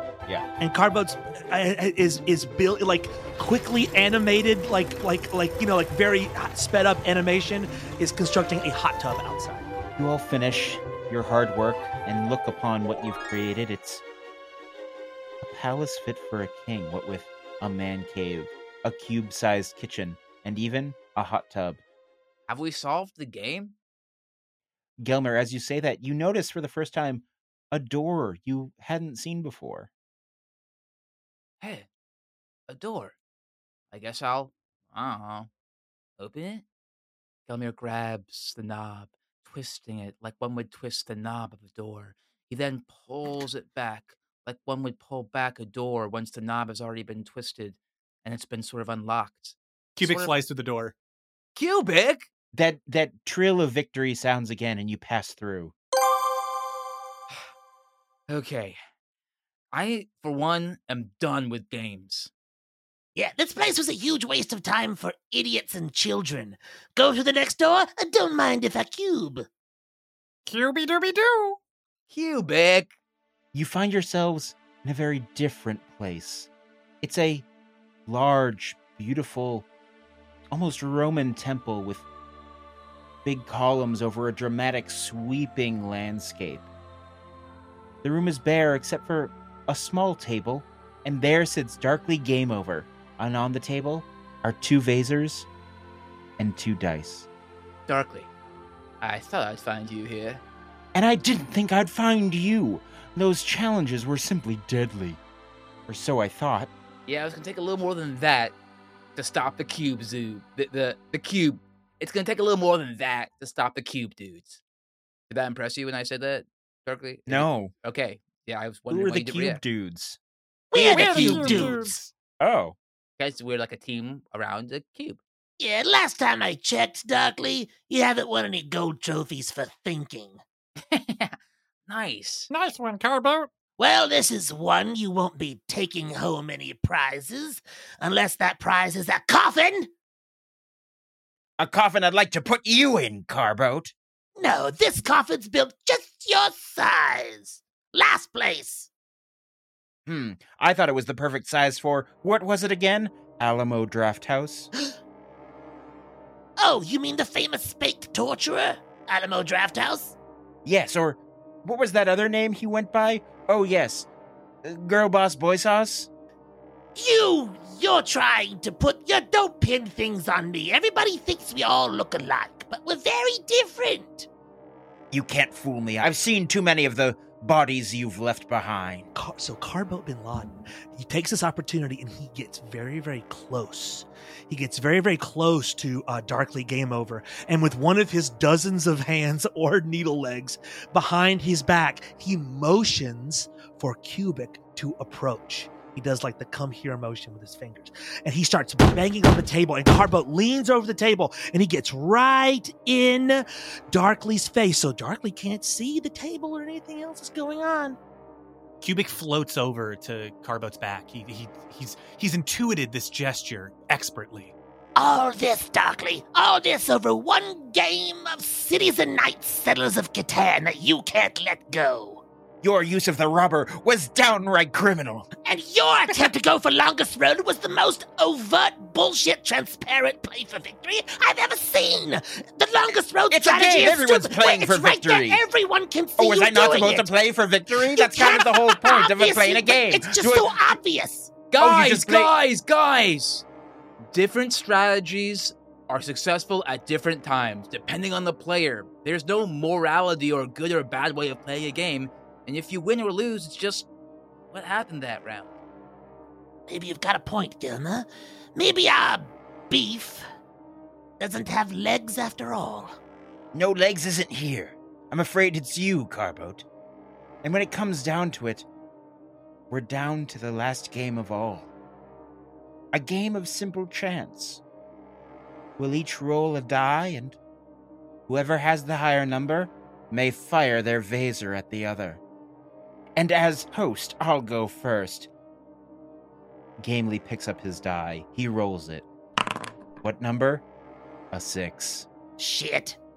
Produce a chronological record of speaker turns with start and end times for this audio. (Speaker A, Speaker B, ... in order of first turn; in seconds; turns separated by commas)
Speaker A: 0.6-9.7, Speaker B: 10.0-14.0, Speaker B: 15.4-21.8, Speaker C: 22.5-23.8, Speaker B: 25.0-29.9, Speaker C: 31.6-31.9, Speaker C: 32.7-33.2, Speaker C: 33.9-35.5, Speaker C: 36.2-36.6, Speaker C: 37.5-50.4, Speaker D: 50.0-51.0, Speaker C: 51.6-52.3, Speaker B: 52.5-55.7, Speaker C: 58.3-58.8, Speaker C: 59.7-62.3, Speaker E: 63.1-69.5, Speaker F: 70.5-71.6, Speaker C: 72.1-72.9, Speaker B: 73.5-76.5, Speaker B: 77.0-77.5, Speaker B: 78.1-79.7, Speaker B: 80.5-82.0, Speaker B: 83.2-86.7, Speaker B: 88.0-95.5, Speaker B: 96.4-97.3, Speaker C: 97.9-98.3, Speaker C: 99.0-100.4, Speaker B: 100.9-105.2, Speaker B: 105.9-106.7, Speaker C: 107.1-108.5, Speaker C: 109.2-114.6, Speaker C: 115.3-119.6, Speaker B: 117.3-117.7, Speaker B: 118.9-120.2, Speaker F: 120.7-122.0, Speaker E: 120.7-122.1, Speaker B: 121.2-121.7, Speaker B: 122.4-122.8, Speaker C: 123.2-125.2, Speaker E: 125.6-130.4, Speaker C: 130.9-132.5, Speaker F: 132.5-133.5, Speaker E: 133.8-139.9, Speaker B: 141.6-143.9, Speaker E: 144.4-148.9, Speaker B: 150.1-154.7, Speaker E: 156.6-160.2, Speaker B: 160.7-164.1, Speaker B: 164.6-166.1, Speaker E: 166.9-174.3, Speaker B: 175.1-179.1, Speaker A: 179.2-208.0, Speaker D: 208.8-214.5, Speaker E: 215.0-222.2, Speaker B: 222.6-225.3, Speaker E: 225.5-237.1, Speaker B: 233.3-235.4, Speaker B: 236.2-240.6, Speaker E: 237.8-241.3, Speaker C: 241.5-243.4, Speaker B: 241.6-242.3, Speaker C: 244.1-253.9, Speaker C: 254.5-255.5, Speaker E: 256.7-260.2, Speaker E: 261.2-263.0, Speaker B: 263.5-266.7, Speaker B: 267.4-268.7, Speaker B: 269.7-271.7, Speaker B: 272.9-274.6, Speaker B: 275.8-277.4, Speaker B: 278.3-282.2, Speaker B: 283.2-285.3, Speaker B: 286.8-289.1, Speaker B: 290.0-290.6, Speaker B: 291.3-292.1, Speaker E: 292.4-293.0